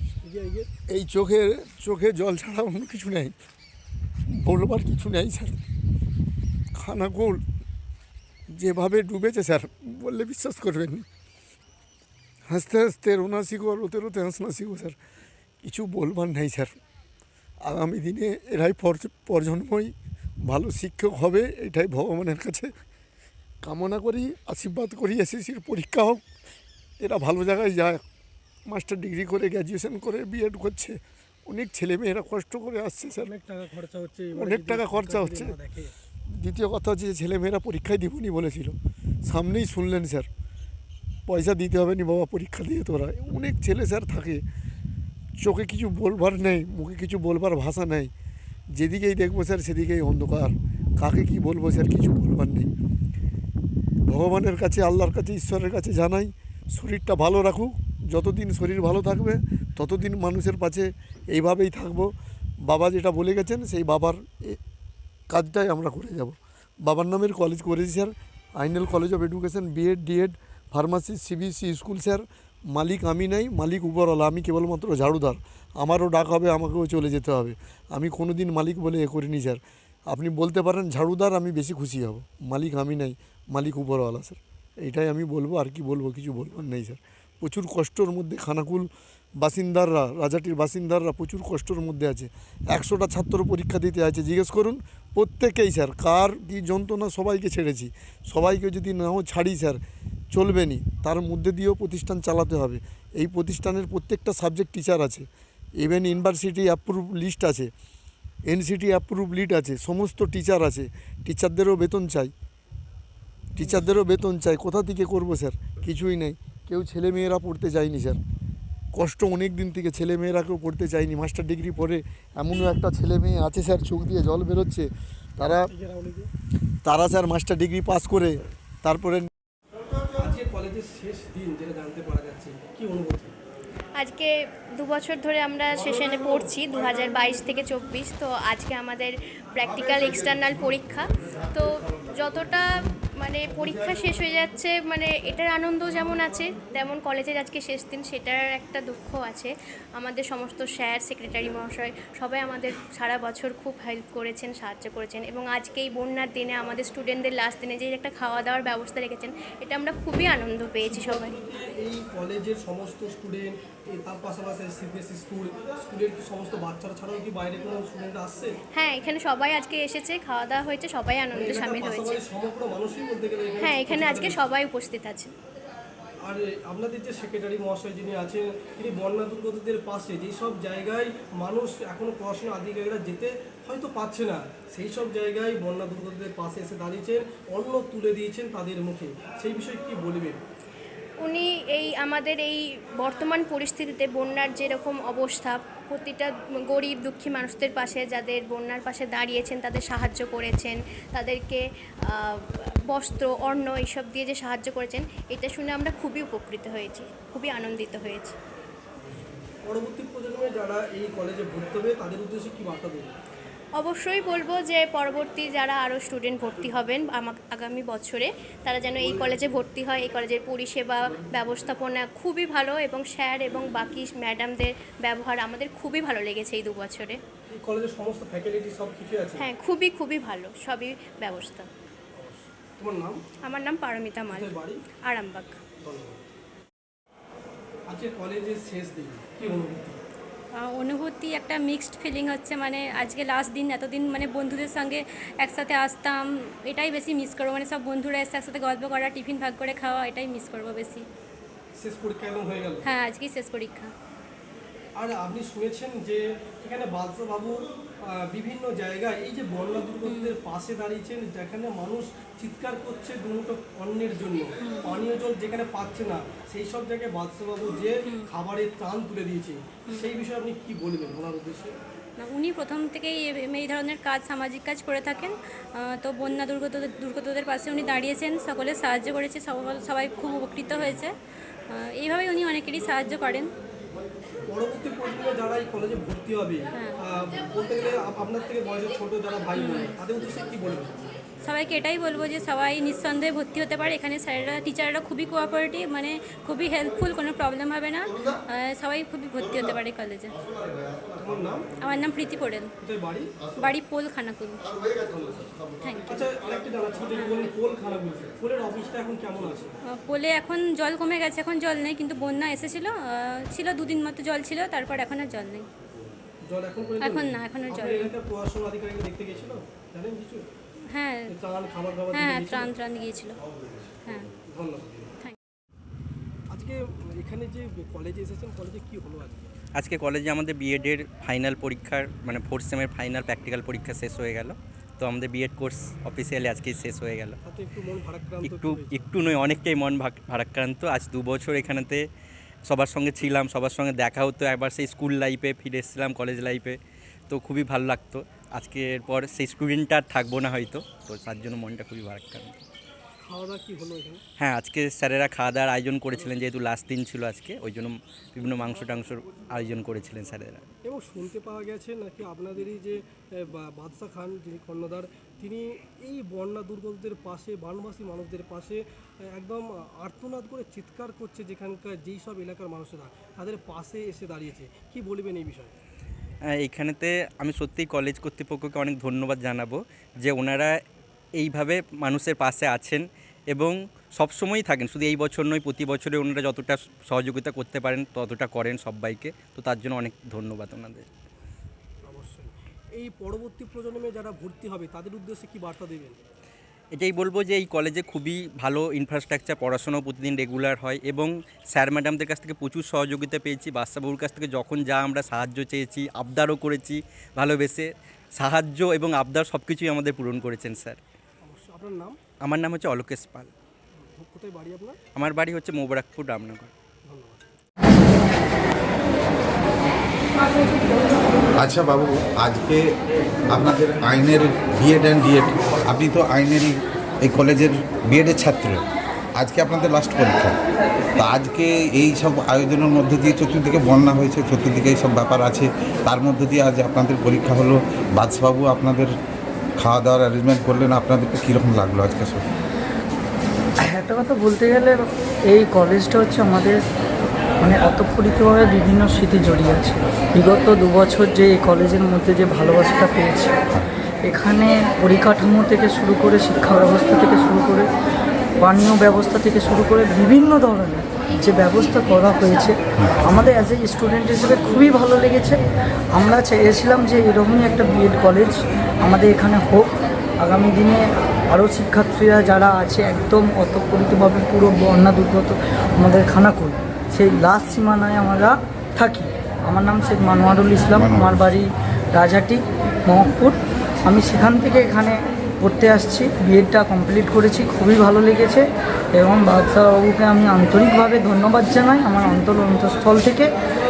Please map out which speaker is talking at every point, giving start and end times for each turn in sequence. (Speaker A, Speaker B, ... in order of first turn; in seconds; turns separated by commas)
Speaker A: 0.2-0.7, Speaker B: 0.9-3.4, Speaker B: 4.3-5.6, Speaker B: 6.8-7.4, Speaker B: 8.5-11.1, Speaker B: 12.5-15.0, Speaker B: 15.6-16.8, Speaker B: 17.6-19.9, Speaker B: 20.4-22.7, Speaker B: 23.6-26.2, Speaker B: 27.0-28.0, Speaker B: 28.7-33.3, Speaker A: 33.2-35.9, Speaker B: 34.4-35.6, Speaker B: 36.4-40.3, Speaker B: 41.3-44.4, Speaker B: 45.4-48.1, Speaker B: 48.7-52.7, Speaker B: 54.1-62.1, Speaker B: 62.6-64.6, Speaker B: 65.3-99.8, Speaker B: 100.3-105.3, Speaker B: 105.8-107.7, Speaker B: 108.5-112.3, Speaker B: 113.6-118.2, Speaker A: 113.6-114.0, Speaker B: 119.0-125.7, Speaker A: 125.5-126.3, Speaker B: 126.8-129.3, Speaker A: 130.2-133.3, Speaker C: 134.0-161.3, Speaker A: 160.8-168.6, Speaker C: 168.8-172.2, Speaker A: 171.3-174.4, Speaker C: 173.6-175.3, Speaker A: 176.3-190.4, Speaker C: 191.2-208.4, Speaker A: 209.7-213.1, Speaker C: 213.8-227.2, Speaker A: 227.5-229.5, Speaker C: 229.4-231.7, Speaker A: 232.2-233.2, Speaker C: 233.4-235.6, Speaker A: 234.3-234.8, Speaker A: 235.8-236.2, Speaker A: 237.9-240.0, Speaker D: 240.5-251.1, Speaker A: 251.8-252.8, Speaker D: 252.8-253.9, Speaker A: 255.0-271.7, Speaker D: 260.0-260.4, Speaker D: 264.6-265.1, Speaker D: 272.2-281.1, Speaker D: 281.7-283.5, Speaker A: 284.5-291.0, Speaker D: 286.7-287.0, Speaker D: 289.5-290.0, Speaker D: 291.4-300.4, Speaker A: 301.2-301.7, Speaker D: 301.8-302.7, Speaker A: 302.8-303.3, Speaker D: 303.6-304.6, Speaker B: 305.0-305.4, Speaker D: 305.8-306.3, Speaker A: 306.1-309.7, Speaker D: 307.1-307.5, Speaker D: 309.8-315.7, Speaker A: 316.5-320.4, Speaker D: 317.0-318.2, Speaker D: 320.9-321.4, Speaker A: 321.3-322.7, Speaker D: 322.1-323.4, Speaker D: 324.1-324.3, Speaker A: 324.5-325.1, Speaker A: 326.5-329.5, Speaker E: 329.8-337.3, Speaker A: 337.4-339.0, Speaker E: 338.4-342.0, Speaker E: 342.7-346.8, Speaker E: 347.3-352.6, Speaker A: 353.2-354.2, Speaker E: 354.4-360.6, Speaker A: 360.9-368.8, Speaker A: 369.4-375.7, Speaker E: 376.6-380.8, Speaker E: 381.4-391.1, Speaker A: 392.1-396.2, Speaker E: 396.9-411.0, Speaker A: 411.4-412.2, Speaker E: 412.4-413.5, Speaker A: 414.0-415.0, Speaker E: 415.2-416.7, Speaker A: 417.1-417.4, Speaker F: 421.6-422.9, Speaker F: 423.5-428.8, Speaker F: 429.4-430.6, Speaker F: 431.2-439.1, Speaker F: 439.8-442.4, Speaker G: 443.9-446.8, Speaker G: 447.6-453.5, Speaker G: 454.2-457.9, Speaker G: 458.6-465.6, Speaker G: 466.1-493.5, Speaker F: 480.9-481.6